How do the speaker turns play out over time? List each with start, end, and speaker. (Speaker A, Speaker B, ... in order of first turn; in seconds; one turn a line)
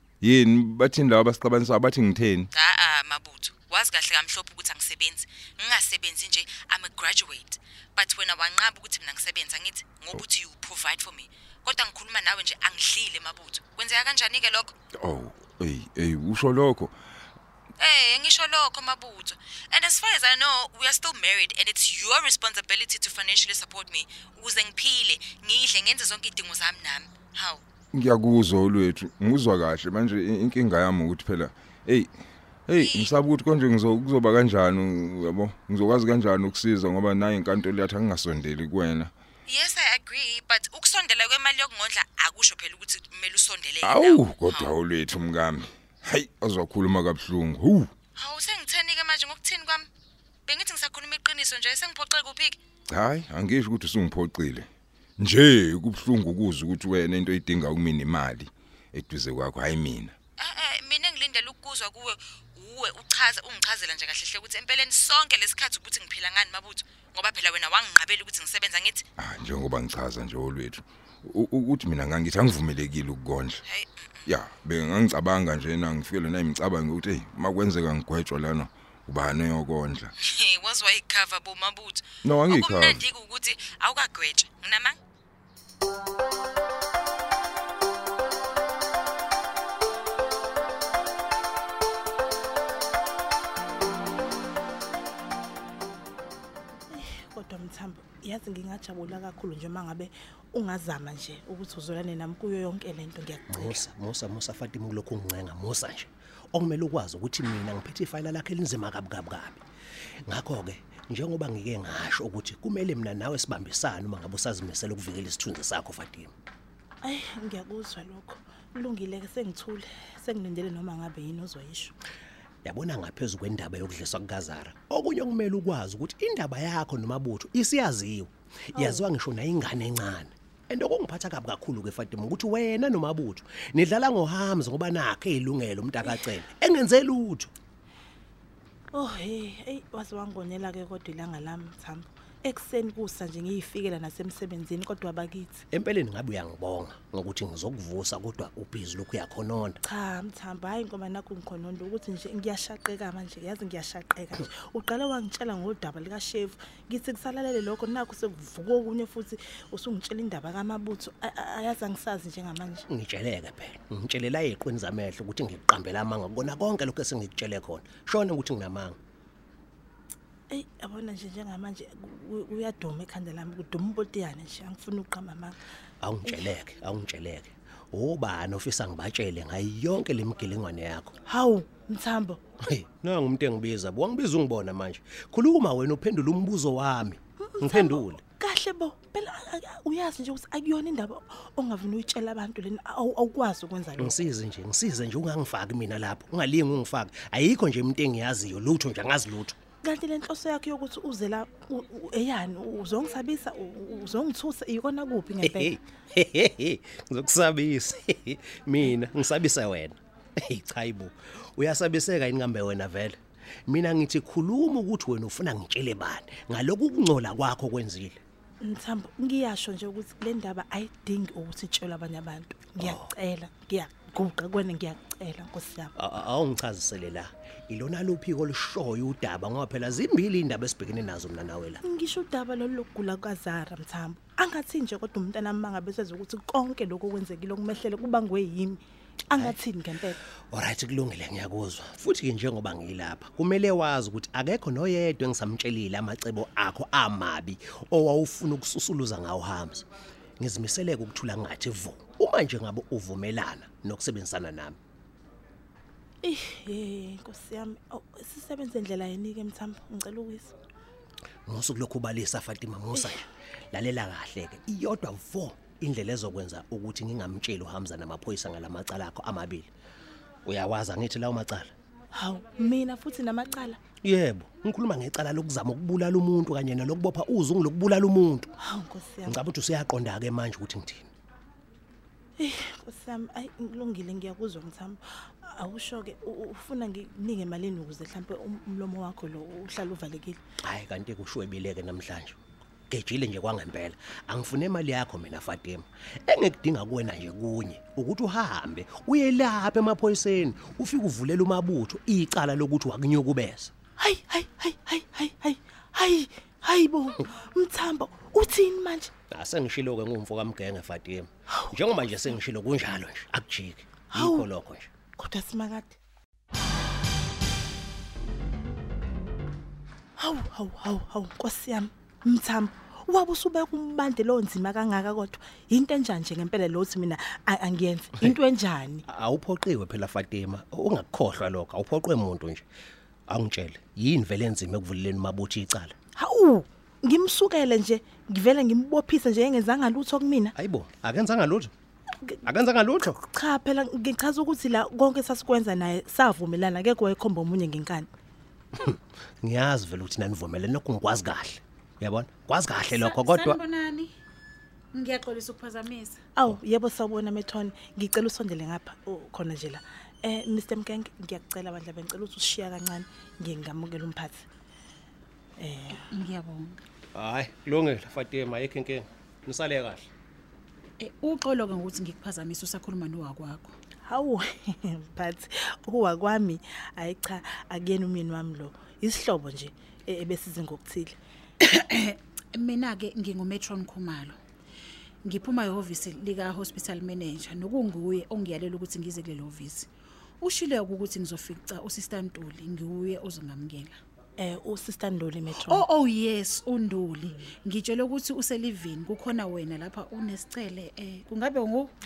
Speaker A: 0.2-2.5
Speaker B: 2.5-14.7
Speaker A: 15.0-16.9
Speaker B: 17.8-27.6
Speaker A: 27.9-32.1
Speaker A: 32.7-39.1
Speaker B: 32.8-33.2
Speaker B: 39.5-44.7
Speaker A: 43.8-47.9
Speaker B: 48.2-49.9
Speaker B: 50.5-52.6
Speaker A: 52.9-54.7
Speaker A: 55.2-60.1
Speaker B: 60.4-69.0
Speaker A: 69.2-73.6
Speaker B: 73.7-74.3
Speaker A: 74.3-80.1
Speaker B: 80.2-85.0
Speaker A: 82.2-83.0
Speaker C: 96.9-103.9
Speaker D: 103.5-109.6
Speaker D: 110.3-116.3
Speaker C: 117.0-121.9
Speaker D: 122.7-137.5
Speaker C: 128.8-129.1
Speaker C: 138.9-145.7
Speaker D: 145.7-149.8
Speaker C: 149.8-162.9
Speaker D: 162.9-169.0
Speaker C: 170.5-175.6
Speaker D: 176.0-181.1
Speaker C: 181.3-182.4
Speaker D: 182.7-188.2
Speaker C: 187.4-194.2
Speaker D: 194.0-199.6
Speaker C: 199.8-205.7
Speaker D: 205.4-218.2
Speaker C: 218.6-225.9
Speaker D: 222.8-223.1
Speaker D: 226.0-231.8
Speaker C: 231.8-240.2
Speaker D: 240.5-249.9
Speaker D: 250.4-254.8
Speaker C: 256.2-260.5
Speaker D: 261.5-269.7
Speaker D: 270.5-271.7
Speaker C: 272.1-273.8
Speaker D: 274.0-278.5
Speaker C: 278.6-279.4
Speaker D: 279.3-281.1
Speaker C: 282.4-290.4
Speaker D: 290.6-303.7
Speaker C: 304.0-309.1
Speaker D: 309.3-314.9
Speaker C: 311.5-311.8
Speaker C: 314.1-314.5
Speaker C: 315.2-316.0
Speaker C: 320.2-329.1
Speaker D: 329.1-332.6
Speaker D: 333.3-335.9
Speaker C: 336.2-340.5
Speaker D: 340.6-341.7
Speaker D: 342.4-343.2
Speaker C: 343.3-348.1
Speaker D: 348.8-353.6
Speaker E: 352.8-354.1
Speaker E: 354.9-356.2
Speaker C: 356.4-364.4
Speaker C: 365.6-366.1
Speaker E: 366.1-366.8
Speaker D: 367.1-370.1
Speaker E: 371.0-373.7
Speaker C: 374.1-381.2
Speaker E: 381.6-384.4
Speaker E: 385.2-389.9
Speaker E: 390.4-394.0
Speaker C: 394.4-395.9
Speaker E: 395.6-401.9